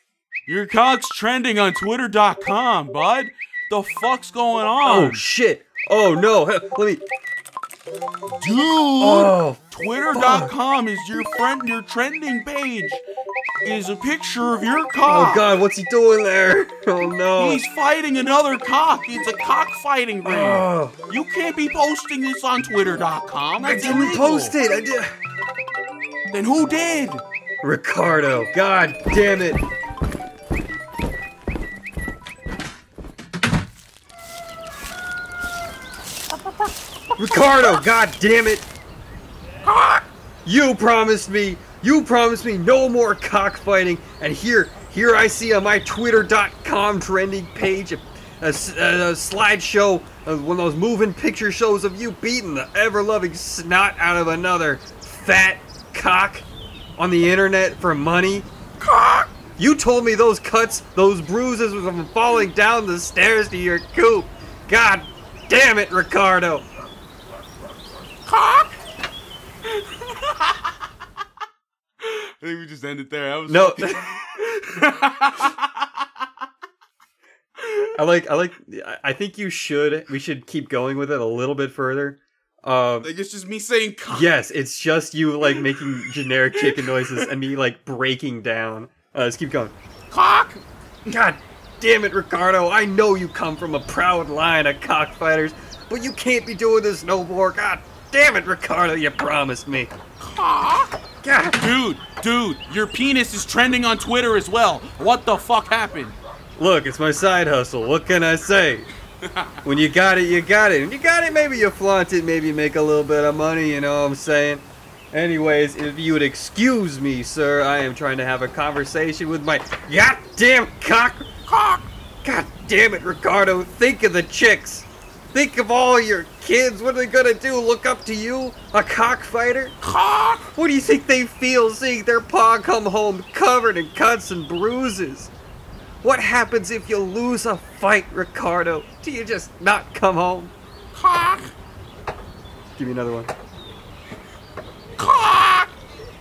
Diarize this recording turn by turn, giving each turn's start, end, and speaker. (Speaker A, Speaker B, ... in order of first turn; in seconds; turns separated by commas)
Speaker A: 0.5-5.2, Speaker B: 4.8-7.0, Speaker A: 8.4-13.0, Speaker B: 9.0-10.5, Speaker A: 13.6-15.4, Speaker B: 15.1-17.6, Speaker A: 17.4-24.5, Speaker B: 20.2-21.0, Speaker B: 23.6-25.1, Speaker A: 26.3-27.2, Speaker B: 27.6-29.6, Speaker B: 37.2-38.7, Speaker B: 40.5-56.5, Speaker B: 57.0-58.5, Speaker B: 59.4-66.7, Speaker A: 68.3-68.7, Speaker A: 70.1-70.3, Speaker A: 72.0-75.6, Speaker B: 73.5-74.1, Speaker B: 78.0-83.1, Speaker A: 83.0-84.3, Speaker B: 84.1-89.7, Speaker A: 86.8-87.3, Speaker A: 90.1-90.6, Speaker B: 91.1-99.9, Speaker A: 100.2-100.9, Speaker B: 101.2-101.6, Speaker A: 101.6-106.2, Speaker B: 106.6-108.9, Speaker B: 109.6-121.3, Speaker A: 121.5-121.8, Speaker B: 122.2-129.8, Speaker A: 129.9-130.4, Speaker B: 130.4-135.3, Speaker B: 136.0-140.5, Speaker A: 140.9-141.5, Speaker B: 142.8-143.3, Speaker A: 145.0-145.7